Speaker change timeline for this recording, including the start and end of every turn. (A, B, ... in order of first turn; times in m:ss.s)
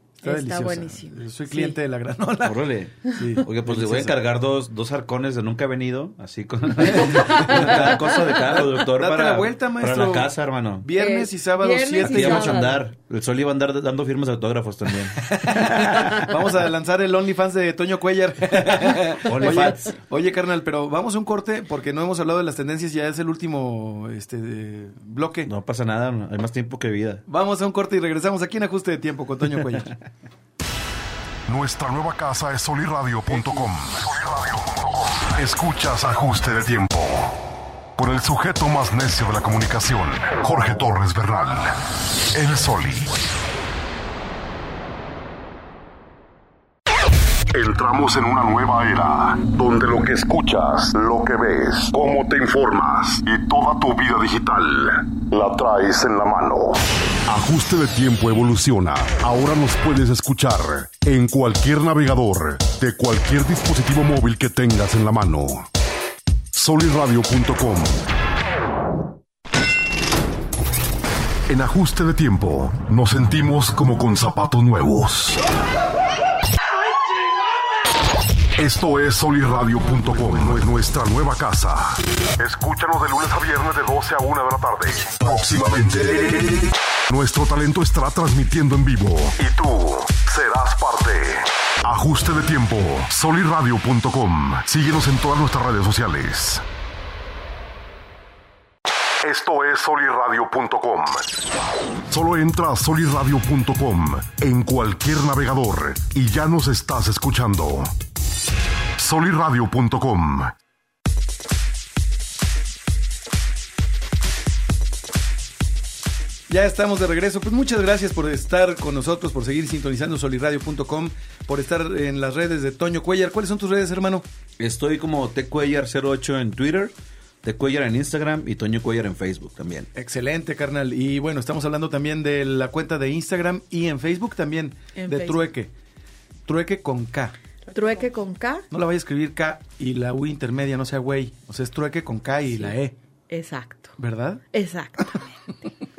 0:00.2-0:04.2 A
0:00.2-0:01.8 B
0:02.4-0:10.9 C
0:06.8-0:07.9 A
0:07.1-0:07.8 B
0:08.8-0:12.8 A
0:11.0-0:12.8 B
0:12.1-0:16.3 C
0:15.2-0:25.5 A
0:18.6-0:20.0 C
0:25.4-0:27.2 C
0:27.3-0:30.0 A
0:31.5-0:34.6 D
0:35.3-0:37.4 D
0:38.0-0:41.8 D
0:42.3-0:43.2 D
0:47.6-0:54.8 D
0:55.5-0:56.6 D
0:57.3-1:05.7 D
1:06.5-1:08.0 D
1:11.5-1:15.4 D
1:18.6-1:36.6 D
1:39.2-1:41.3 D
1:42.1-1:47.9 D
1:49.0-1:50.5 D
1:56.5-2:04.2 A
2:04.6-2:09.9 C
2:10.0-2:15.7 A
2:15.0-2:15.4 B
2:16.5-2:17.4 A
2:17.7-2:18.7 B
2:18.7-2:23.0 A
2:23.3-2:24.0 B
2:24.0-2:24.4 A
2:24.5-2:25.3 B